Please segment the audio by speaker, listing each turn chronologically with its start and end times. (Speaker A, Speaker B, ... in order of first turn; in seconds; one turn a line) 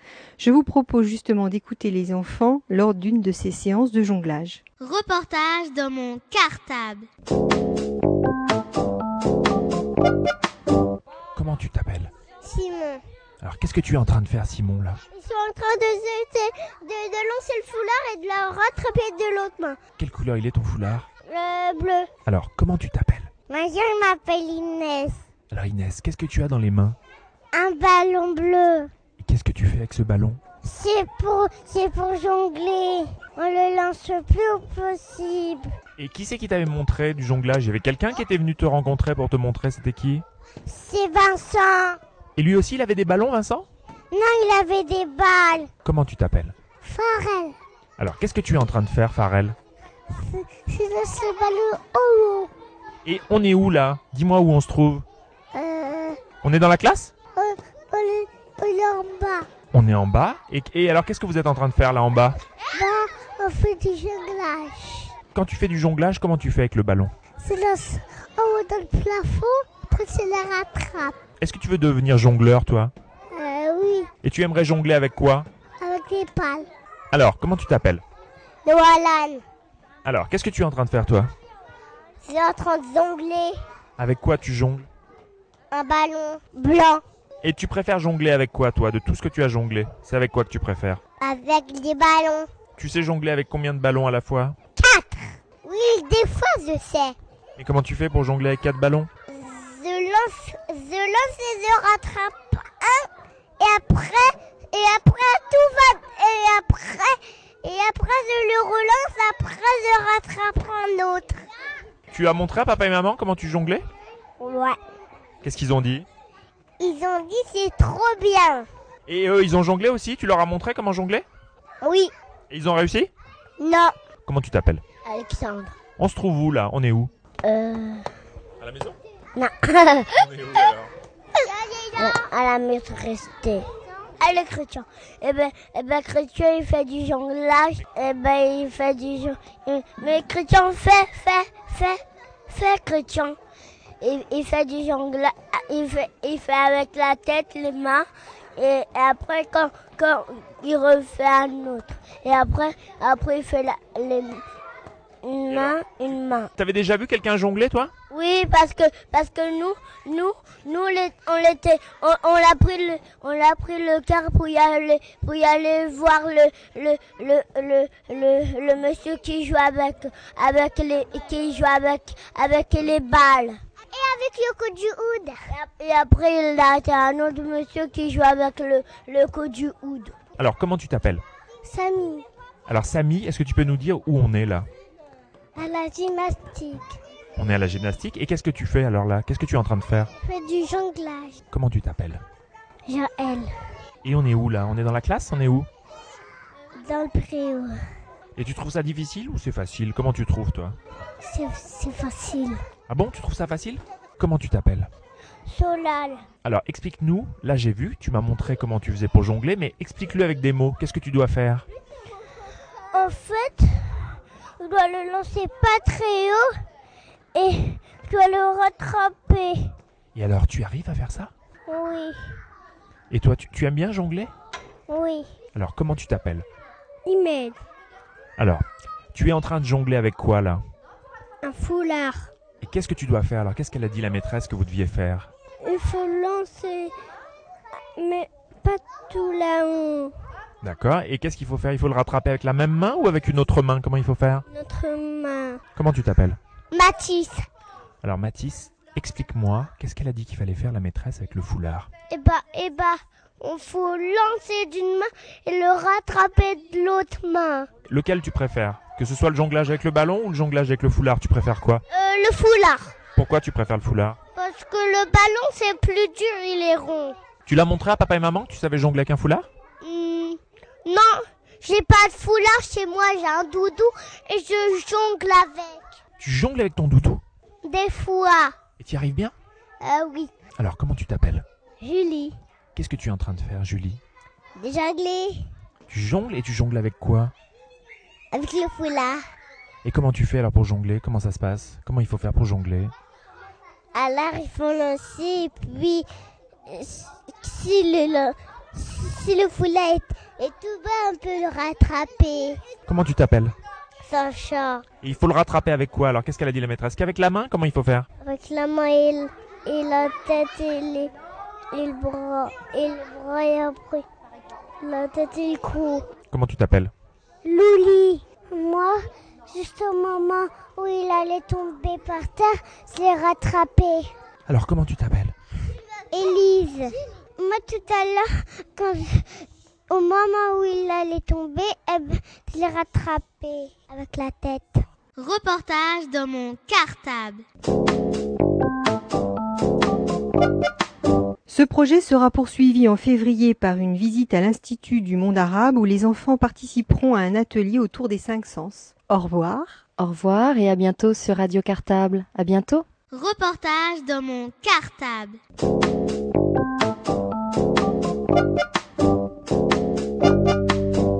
Speaker A: 0.4-4.6
Speaker B: 4.8-7.1
Speaker C: 11.3-12.1
Speaker D: 12.4-13.0
Speaker C: 13.4-15.0
Speaker D: 15.1-19.8
Speaker C: 20.0-21.1
Speaker D: 21.2-22.1
Speaker C: 22.2-23.3
Speaker D: 23.5-25.2
Speaker C: 25.5-27.0
Speaker D: 27.5-28.9
Speaker C: 29.2-30.4
Speaker D: 30.6-35.7
Speaker C: 36.0-40.2
Speaker D: 40.6-42.0
Speaker C: 42.4-43.7
Speaker D: 44.1-45.7
Speaker C: 45.8-46.5
Speaker D: 46.8-47.5
Speaker C: 48.0-49.6
Speaker D: 50.1-52.5
Speaker C: 53.0-55.0
Speaker D: 55.5-56.2
Speaker C: 56.4-57.1
Speaker D: 57.4-59.5
Speaker C: 59.7-62.4
Speaker D: 62.7-65.1
Speaker C: 65.3-67.1
Speaker D: 67.4-71.2
Speaker C: 71.4-72.9
Speaker D: 73.3-74.1
Speaker C: 74.2-75.5
Speaker D: 75.8-76.7
Speaker C: 77.1-78.0
Speaker D: 78.6-79.4
Speaker C: 80.0-81.3
Speaker D: 82.2-83.5
Speaker C: 84.0-84.9
Speaker D: 85.7-87.0
Speaker C: 87.4-91.0
Speaker D: 91.2-92.5
Speaker C: 92.8-94.6
Speaker D: 94.8-97.2
Speaker C: 97.6-99.1
Speaker D: 99.3-103.1
Speaker D: 103.6-111.4
Speaker C: 112.1-113.8
Speaker D: 114.4-114.8
Speaker C: 115.4-116.1
Speaker D: 116.8-118.7
Speaker C: 119.0-121.2
Speaker D: 121.8-122.1
Speaker C: 122.5-123.1
Speaker D: 123.6-123.9
Speaker C: 124.2-124.8
Speaker D: 125.0-125.7
Speaker C: 126.0-127.1
Speaker D: 127.4-128.1
Speaker C: 128.6-128.9
Speaker D: 129.3-130.2
Speaker C: 130.2-130.9
Speaker D: 131.3-143.4
Speaker D: 144.0-154.4
Speaker D: 155.2-156.5
Speaker C: 155.5-155.8
Speaker C: 156.6-157.9
Speaker D: 158.1-180.1
Speaker C: 180.4-181.2
Speaker D: 181.6-182.2
Speaker C: 182.7-184.7
Speaker D: 185.6-187.0
Speaker C: 187.3-190.1
Speaker D: 190.2-191.4
Speaker C: 191.5-192.2
Speaker D: 192.8-193.5
Speaker C: 194.0-195.7
Speaker D: 196.8-197.8
Speaker C: 198.3-200.8
Speaker D: 201.2-202.6
Speaker C: 202.9-204.9
Speaker D: 205.5-206.2
Speaker C: 206.4-211.7
Speaker D: 212.9-216.5
Speaker D: 217.3-219.7
Speaker C: 220.1-221.3
Speaker D: 221.7-222.3
Speaker C: 223.1-224.3
Speaker D: 224.9-225.3
Speaker C: 225.5-226.4
Speaker D: 227.0-227.6
Speaker C: 228.4-230.6
Speaker D: 231.4-232.3
Speaker C: 232.6-235.3
Speaker D: 235.6-236.9
Speaker D: 237.9-240.1
Speaker C: 240.6-244.4
Speaker D: 244.5-245.6
Speaker C: 245.8-246.4
Speaker D: 246.7-247.4
Speaker C: 248.0-251.9
Speaker D: 252.1-257.7
Speaker C: 257.9-261.8
Speaker D: 261.9-262.9
Speaker C: 263.1-264.2
Speaker D: 264.4-267.2
Speaker C: 267.4-269.5
Speaker D: 269.8-275.8
Speaker C: 276.2-277.2
Speaker D: 277.6-278.5
Speaker C: 278.8-279.3
Speaker D: 279.8-280.3
Speaker C: 280.6-281.4
Speaker D: 281.8-282.4
Speaker C: 282.7-284.0
Speaker D: 284.6-285.4
Speaker C: 285.9-287.3
Speaker D: 288.3-289.2
Speaker C: 289.8-292.9
Speaker D: 293.9-296.1
Speaker D: 296.7-302.6
Speaker C: 302.9-303.5
Speaker D: 304.0-304.8
Speaker C: 305.0-308.1
Speaker D: 308.2-311.1
Speaker D: 311.7-314.1
Speaker D: 314.8-316.1
Speaker C: 316.3-316.9
Speaker D: 317.4-324.1
Speaker C: 324.5-325.3
Speaker D: 326.1-334.9
Speaker B: 335.1-337.4
Speaker A: 341.5-349.8
Speaker E: 350.0-352.8
Speaker B: 353.1-355.4